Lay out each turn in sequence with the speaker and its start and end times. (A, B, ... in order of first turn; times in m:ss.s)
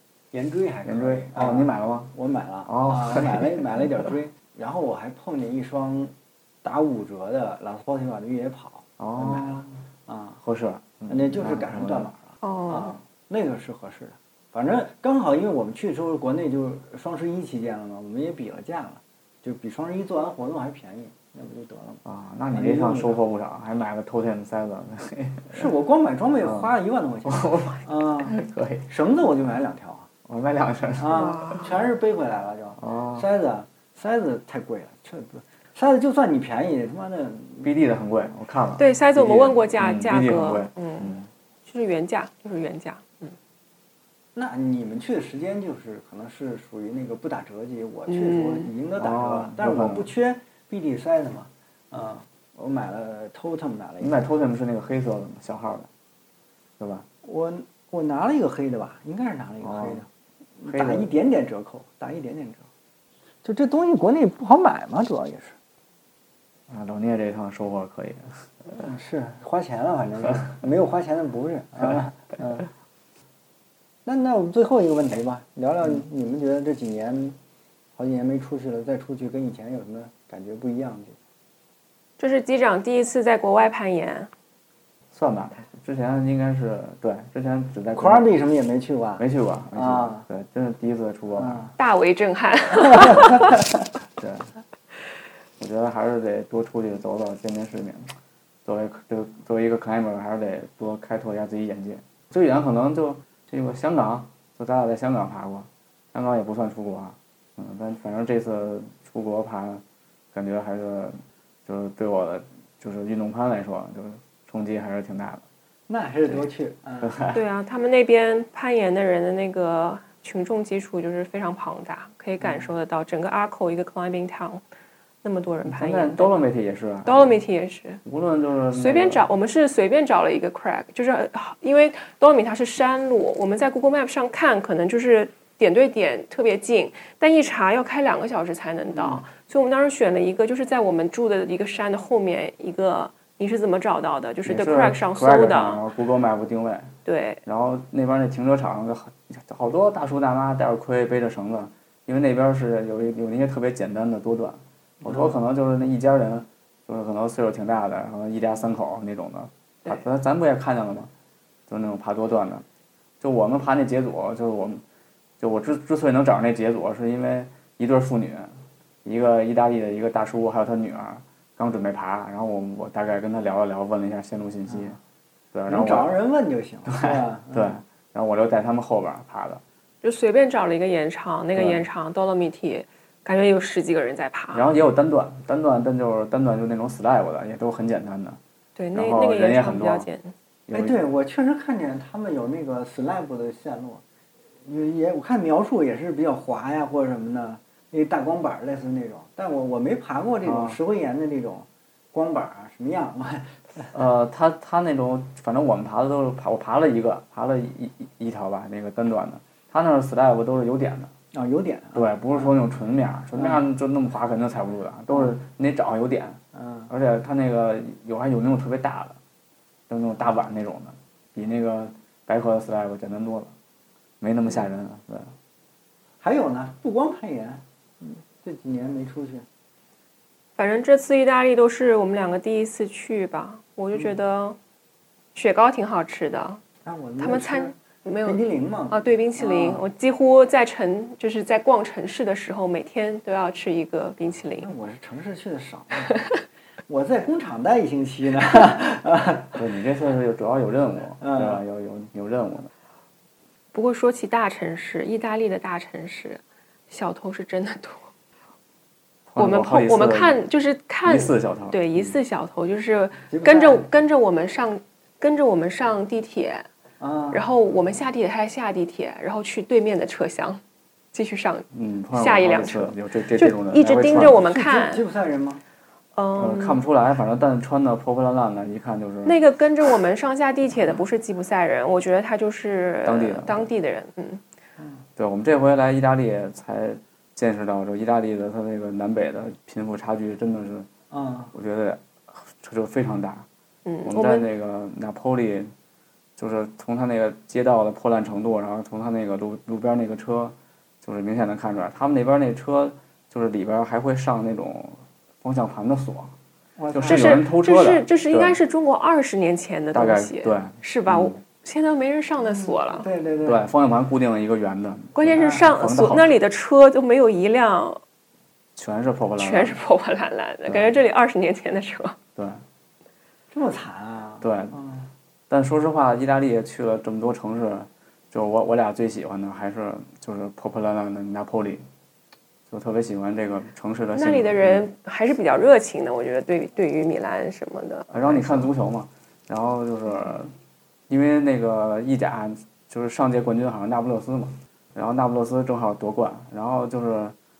0:00.3-0:10.4 A
0:00.8-0:02.1 B
0:02.7-0:03.6 B
0:09.0-0:09.8 B
0:10.4-0:12.1 B
0:11.1-0:23.2 A
0:12.4-0:12.9 C
0:22.0-0:25.7 B
0:25.5-0:28.4 A
0:26.4-0:26.7 B
0:27.2-0:28.9 B
0:28.9-0:30.1 A
0:30.3-0:31.6 B
0:31.0-0:37.7 A
0:31.1-0:31.7 C
0:32.8-0:33.3 B
0:37.6-0:41.3 B
0:38.8-0:43.4 C
0:44.4-0:54.2 A
0:48.1-0:48.7 C
0:49.0-0:50.1 B
0:54.0-0:55.9 B
0:56.8-0:57.1 B
0:57.2-1:00.1 A
0:59.6-1:00.0 B
1:00.6-1:02.6 A
1:00.7-1:01.1 B
1:03.4-1:05.6 A
1:06.7-1:08.8 B
1:08.8-1:12.7 A
1:14.0-1:17.4 A
1:18.0-1:21.2 A
1:22.2-1:24.3 C
1:25.1-1:28.3 B
1:28.0-1:29.2 A
1:29.2-1:31.7 B
1:29.8-1:30.3 A
1:31.4-1:31.7 A
1:31.8-1:33.5 C
1:32.9-1:33.6 A
1:34.2-1:34.5 B
1:35.6-1:38.1 B
1:38.6-1:49.8 B
1:50.3-1:55.4 B
1:55.9-1:57.2 A
1:57.0-1:57.4 B
1:57.3-2:04.6 C
2:02.4-2:02.7 A
2:05.2-2:06.4 C
2:05.6-2:07.4 B
2:07.1-2:08.0 C
2:08.0-2:09.2 B
2:08.7-2:25.8 C
2:19.0-2:19.2 A
2:24.4-2:26.9 B
2:27.0-2:27.4 C
2:27.5-2:41.1 B
2:35.0-2:35.3 A
2:41.7-2:42.6 B
2:43.2-2:44.8 B
2:45.4-2:55.0 B
2:54.7-2:54.9 A
2:55.5-2:56.2 B
2:55.7-2:57.8 A
2:56.9-2:59.6 B
3:00.0-3:04.7 C
3:01.6-3:01.8 B
3:04.5-3:08.4 B
3:08.8-3:10.3 C
3:08.9-3:10.1 B
3:10.7-3:11.0 B
3:10.7-3:14.0 A
3:14.6-3:23.9 A
3:20.4-3:20.8 B
3:23.9-3:31.1 B
3:31.3-3:32.5 A
3:31.9-3:36.4 B
3:36.5-3:36.9 A
3:36.9-3:39.2 B
3:39.9-3:43.5 B
3:44.2-3:45.3 B
3:46.2-3:49.4 A
3:50.6-3:54.6 C
3:55.4-3:56.6 C
3:56.8-3:59.8 A
3:57.2-3:58.4 C
3:58.9-4:04.7 C
4:04.5-4:06.1 A
4:06.1-4:06.4 C
4:06.9-4:09.6 A
4:09.6-4:12.7 B
4:11.2-4:11.6 A
4:13.7-4:18.1 C
4:19.3-4:20.4 B
4:19.4-4:26.7 C
4:21.0-4:22.2 B
4:23.3-4:23.9 A
4:27.0-4:27.4 A
4:27.3-4:30.6 C
4:31.1-4:35.0 C
4:31.7-4:34.4 B
4:34.1-4:35.6 A
4:36.2-4:36.8 C
4:36.4-4:39.4 B
4:39.3-4:44.4 C
4:43.0-4:43.7 B
4:45.2-4:50.9 B
4:51.1-4:51.5 A
4:51.5-4:53.5 B
4:53.8-4:54.4 C
4:54.0-4:55.7 B
4:56.4-5:06.3 B
5:06.8-5:07.4 A
5:06.9-5:08.6 B
5:07.0-5:13.1 C
5:09.9-5:11.4 B
5:12.9-5:13.6 A
5:13.4-5:16.4 B
5:15.2-5:18.0 C
5:15.3-5:15.7 A
5:18.8-5:19.8 B
5:19.4-5:22.2 C
5:20.7-5:20.9 B
5:22.4-5:22.6 B
5:23.5-5:25.1 A
5:24.4-5:24.8 B
5:25.5-5:31.8 B
5:32.7-5:34.9 B
5:34.2-5:38.7 C
5:38.1-5:40.5 B
5:41.1-5:47.4 B